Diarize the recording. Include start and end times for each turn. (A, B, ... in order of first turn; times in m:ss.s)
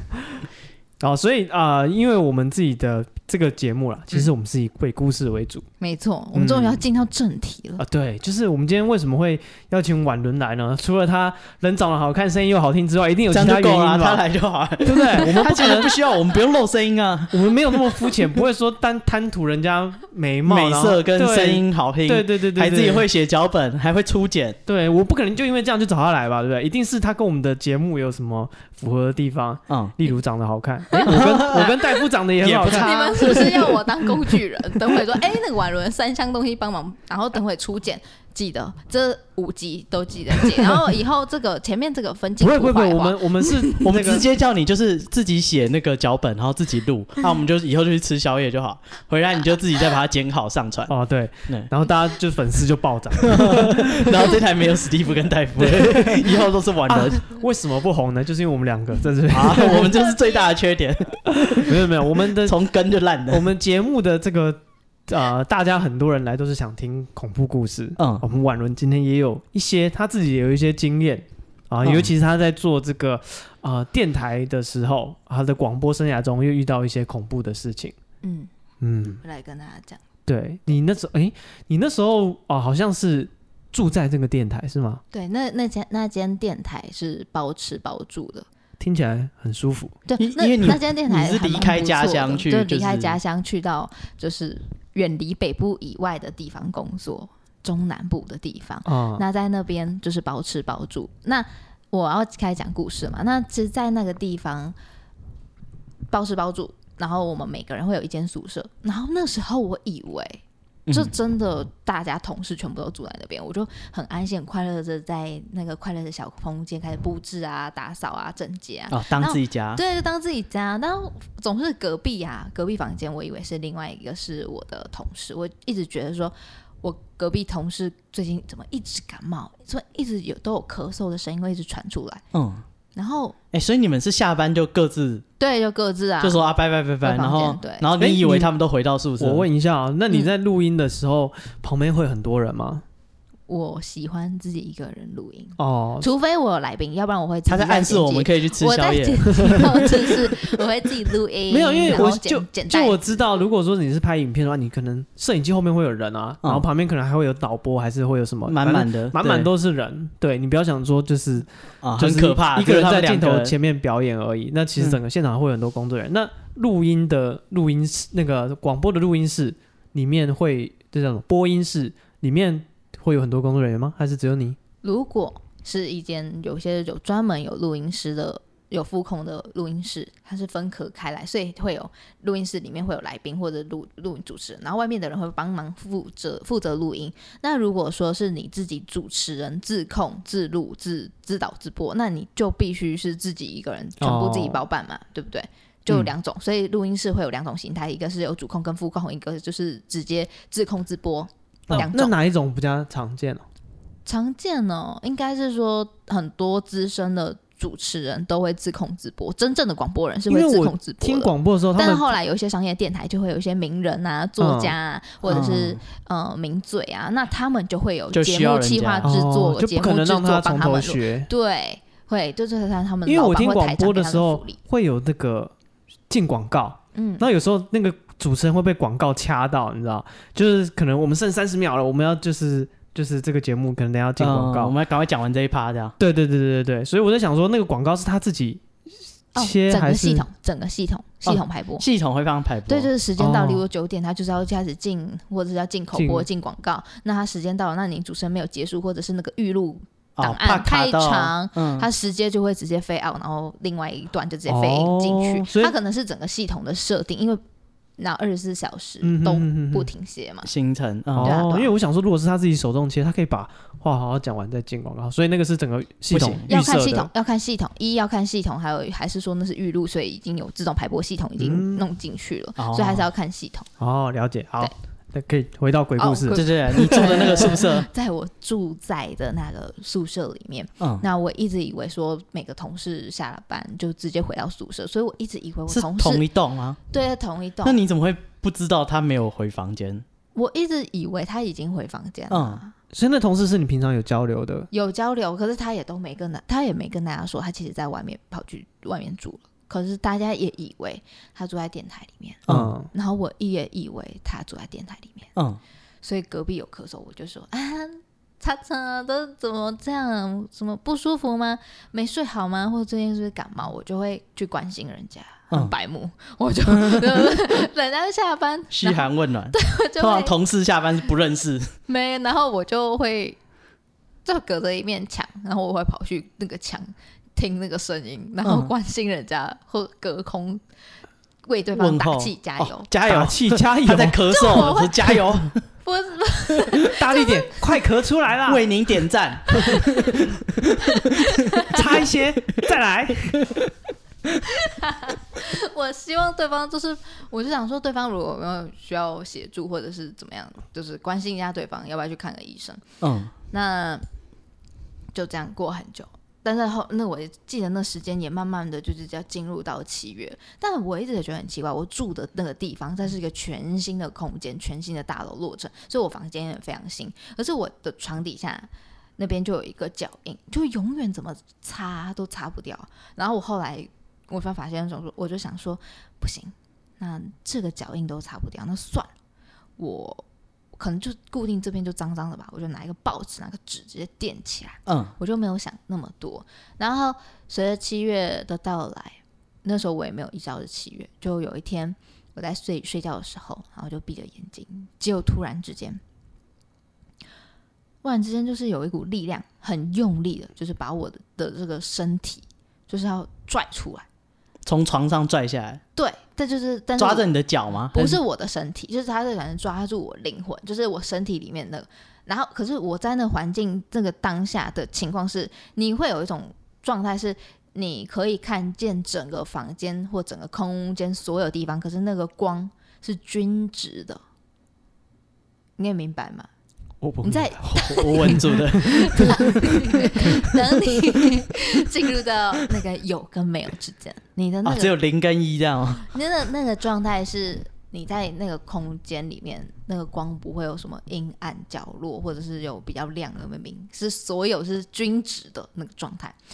0:01.0-0:05.7 A
0:05.8-0:07.8 B
0:06.3-0:06.8 A
0:07.8-0:14.2 A
0:13.3-0:18.0 C
0:14.8-0:16.0 A
0:17.3-0:23.1 A
0:20.4-0:24.6 C
0:24.7-0:33.8 A
0:29.7-0:30.0 C
0:30.9-0:31.6 B
0:31.1-0:31.8 C
0:32.4-0:33.5 C
0:32.7-0:43.7 B
0:42.4-0:44.3 A
0:43.8-0:50.9 C
0:50.9-0:54.1 A
0:53.2-0:57.2 C
0:55.6-1:00.0 A
0:59.3-1:03.5 C
1:01.4-1:02.6 A
1:03.3-1:18.0 A
1:08.0-1:08.2 C
1:11.8-1:12.1 C
1:18.2-1:18.5 B
1:18.8-1:19.2 A
1:19.2-1:20.0 B
1:20.3-1:25.0 A
1:25.1-1:28.5 B
1:28.8-1:30.0 A
1:30.1-1:44.8 B
1:30.2-1:33.2 C
1:38.9-1:39.2 A
1:46.1-2:12.2 B
1:58.9-1:59.8 C
2:12.3-2:12.6 C
2:13.0-2:13.4 B
2:13.5-2:15.2 C
2:15.4-2:16.4 B
2:16.2-2:19.5 C
2:17.0-2:17.9 B
2:18.0-2:18.5 A
2:19.2-2:22.8 A
2:23.5-2:33.1 B
2:25.6-2:26.1 A
2:27.5-2:30.1 C
2:31.5-2:54.6 A
2:38.5-2:39.5 C
2:41.8-2:43.6 C
2:54.8-3:22.1 B
3:14.0-3:14.6 A
3:21.7-3:23.4 A
3:24.1-3:44.6 B
3:30.3-3:32.2 A
3:34.4-3:34.8 A
3:35.2-3:35.8 C
3:38.1-3:39.1 C
3:39.0-3:41.3 A
3:43.1-3:45.5 A
3:46.1-3:54.7 A
3:47.0-3:47.2 B
3:54.2-3:56.0 C
3:56.0-3:58.6 A
3:59.4-4:00.3 A
3:59.4-4:01.9 B
4:01.3-4:03.5 C
4:02.7-4:17.4 B
4:03.2-4:03.6 A
4:05.9-4:06.3 A
4:10.2-4:11.9 C
4:14.5-4:15.7 A
4:18.0-4:20.5 B
4:19.0-4:19.9 A
4:20.4-4:21.4 C
4:21.2-4:27.1 A
4:21.2-4:21.7 B
4:26.1-4:26.5 C
4:26.5-4:33.7 B
4:31.4-4:31.8 A
4:32.6-4:33.1 C
4:33.8-4:37.6 A
4:36.0-4:46.2 B
4:36.3-4:37.9 C
4:45.7-4:46.8 C
4:46.9-4:47.8 B
4:47.6-4:50.0 C
4:50.4-4:52.7 B
4:52.3-4:52.6 C
4:52.9-4:54.7 A
4:54.7-5:05.3 B
5:02.5-5:02.7 C
5:02.5-5:02.9 A
5:06.0-5:20.4 B
5:16.7-5:17.3 C
5:18.7-5:21.7 C
5:21.9-5:23.4 B
5:24.2-5:30.6 B
5:28.4-5:28.7 C
5:31.5-5:32.9 B
5:31.8-5:35.6 C
5:33.1-5:34.3 A
5:34.3-5:35.3 B
5:35.8-5:37.6 B
5:36.8-5:38.7 A
5:38.5-5:41.3 C
5:39.6-5:40.1 B
5:41.2-5:41.8 B
5:41.7-5:43.4 A
5:44.6-5:52.8 B
5:53.0-5:53.3 C
5:53.5-5:54.0 B
5:55.1-6:19.1 B
6:19.8-6:20.2 B
6:20.8-6:36.0 B
6:24.9-6:25.1 C
6:38.0-6:44.1 B
6:44.7-6:45.8 C
6:46.0-6:47.3 B
6:47.0-6:48.2 C
6:47.9-7:04.2 B
7:05.8-7:06.5 B
7:07.0-7:09.4 A
7:07.2-7:14.9 B
7:07.8-7:09.8 C
7:14.6-7:16.1 C
7:16.1-7:26.4 B